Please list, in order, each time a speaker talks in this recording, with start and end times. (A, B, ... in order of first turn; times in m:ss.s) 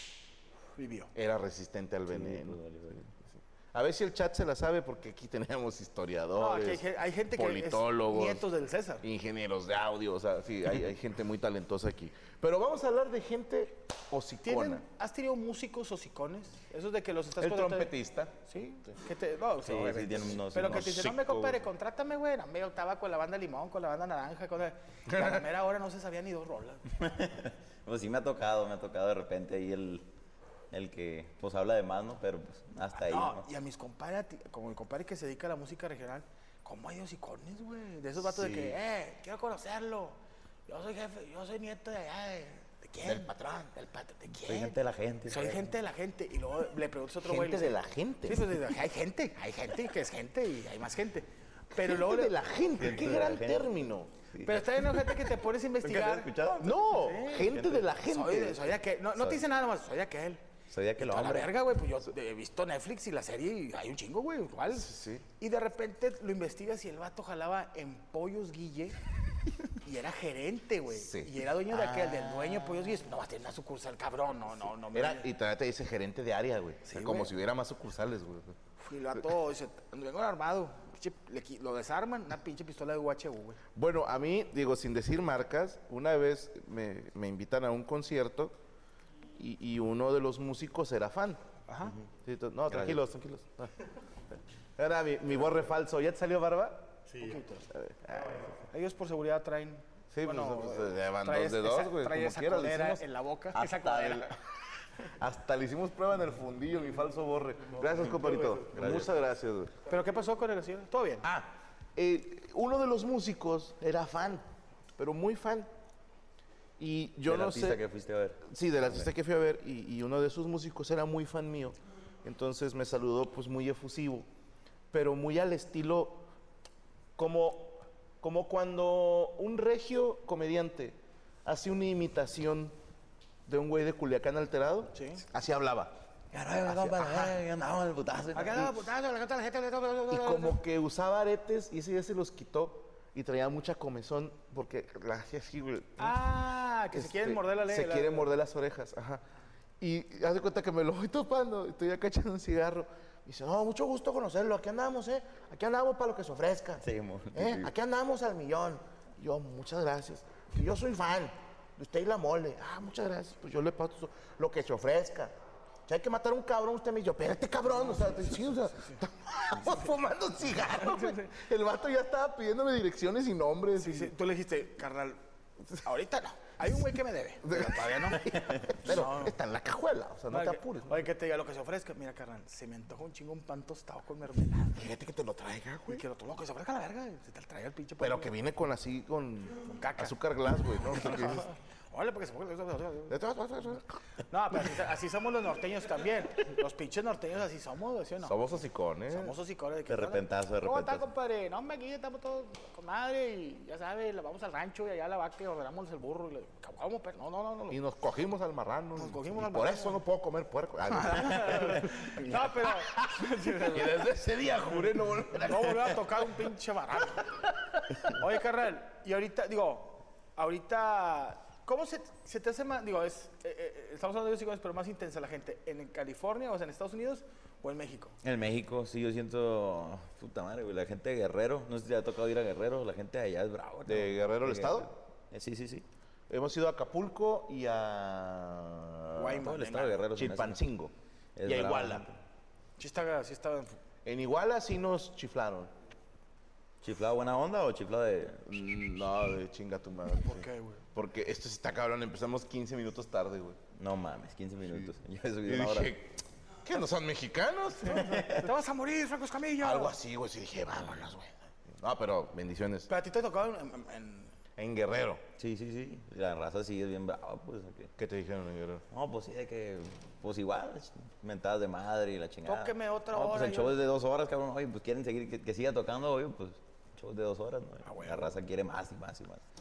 0:00.8-0:01.1 A
0:01.2-0:02.6 B
0:02.1-0:03.1 C
0:03.7-0:08.4 B
0:06.4-0:09.0 A
0:09.0-0:14.8 B
0:14.4-0:17.9 A
0:17.4-0:18.4 B
0:18.4-0:26.9 A
0:19.6-0:21.1 C
0:20.6-0:21.6 B
0:25.1-0:25.4 B
0:26.9-0:30.1 C
0:30.7-0:33.5 C
0:33.0-0:44.8 A
0:38.4-0:38.6 B
0:43.0-0:43.6 B
0:44.4-0:45.7 C
0:45.3-0:52.4 A
0:47.2-0:48.5 B
0:51.7-0:54.2 B
0:52.8-0:53.7 C
0:54.3-0:55.2 C
0:54.4-0:57.5 A
0:55.8-0:56.8 C
0:56.4-0:58.7 B
0:57.4-0:57.9 C
0:58.0-1:00.4 A
1:00.7-1:01.5 C
1:01.0-1:09.0 A
1:04.7-1:05.2 B
1:09.8-1:15.3 A
1:10.9-1:11.3 B
1:11.8-1:13.0 C
1:14.9-1:18.6 B
1:16.8-1:17.3 A
1:18.8-1:23.6 A
1:23.8-1:28.6 B
1:29.4-1:31.4 B
1:31.7-1:32.0 A
1:32.2-1:33.7 B
1:32.7-1:33.0 C
1:34.8-1:37.2 B
1:37.1-1:37.7 A
1:37.7-1:38.5 B
1:38.7-1:44.3 A
1:40.1-1:44.4 B
1:45.1-1:49.7 B
1:48.4-1:49.1 C
1:49.9-1:51.3 A
1:51.2-1:54.5 B
1:55.0-1:55.7 B
1:56.8-1:57.8 B
1:57.3-1:59.1 C
1:58.4-2:04.3 B
2:04.9-2:06.3 B
2:07.2-2:12.8 B
2:13.5-2:16.0 B
2:14.9-2:15.2 A
2:16.3-2:18.7 C
2:16.6-2:17.4 B
2:18.3-2:20.6 A
2:20.1-2:26.2 B
2:26.0-2:28.3 A
2:26.9-2:29.2 B
2:29.8-2:45.3 B
2:36.8-2:37.7 C
2:45.9-2:54.2 B
2:47.7-2:49.0 A
2:50.7-2:51.3 A
2:53.8-2:55.2 A
2:55.7-2:59.4 A
2:57.4-3:01.0 B
3:00.3-3:04.9 A
3:04.8-3:06.0 B
3:05.9-3:08.3 A
3:08.0-3:11.5 B
3:09.6-3:10.2 A
3:10.9-3:13.2 A
3:13.1-3:14.0 B
3:14.3-3:18.4 A
3:18.2-3:19.4 B
3:19.1-3:27.8 A
3:19.9-3:21.1 C
3:27.7-3:36.0 B
3:29.0-3:30.0 A
3:30.9-3:34.1 A
3:35.4-3:37.3 A
3:38.0-3:48.2 A
3:48.2-3:55.9 C
3:53.9-3:54.9 B
3:56.3-3:59.4 B
3:59.1-4:00.0 A
3:59.4-4:00.6 C
4:00.1-4:02.0 B
4:01.4-4:02.2 C
4:02.8-4:03.8 A
4:04.0-4:05.7 B
4:06.8-4:08.5 C
4:08.5-4:13.6 B
4:10.2-4:10.8 A
4:13.7-4:15.9 C
4:15.4-4:18.3 B
4:17.8-4:20.0 A
4:18.0-4:18.5 C
4:19.6-4:22.9 B
4:22.9-4:24.4 A
4:24.6-4:25.2 B
4:25.4-4:27.9 C
4:28.0-4:28.8 B
4:28.9-4:39.4 C
4:32.4-4:33.8 A
4:37.8-4:38.4 A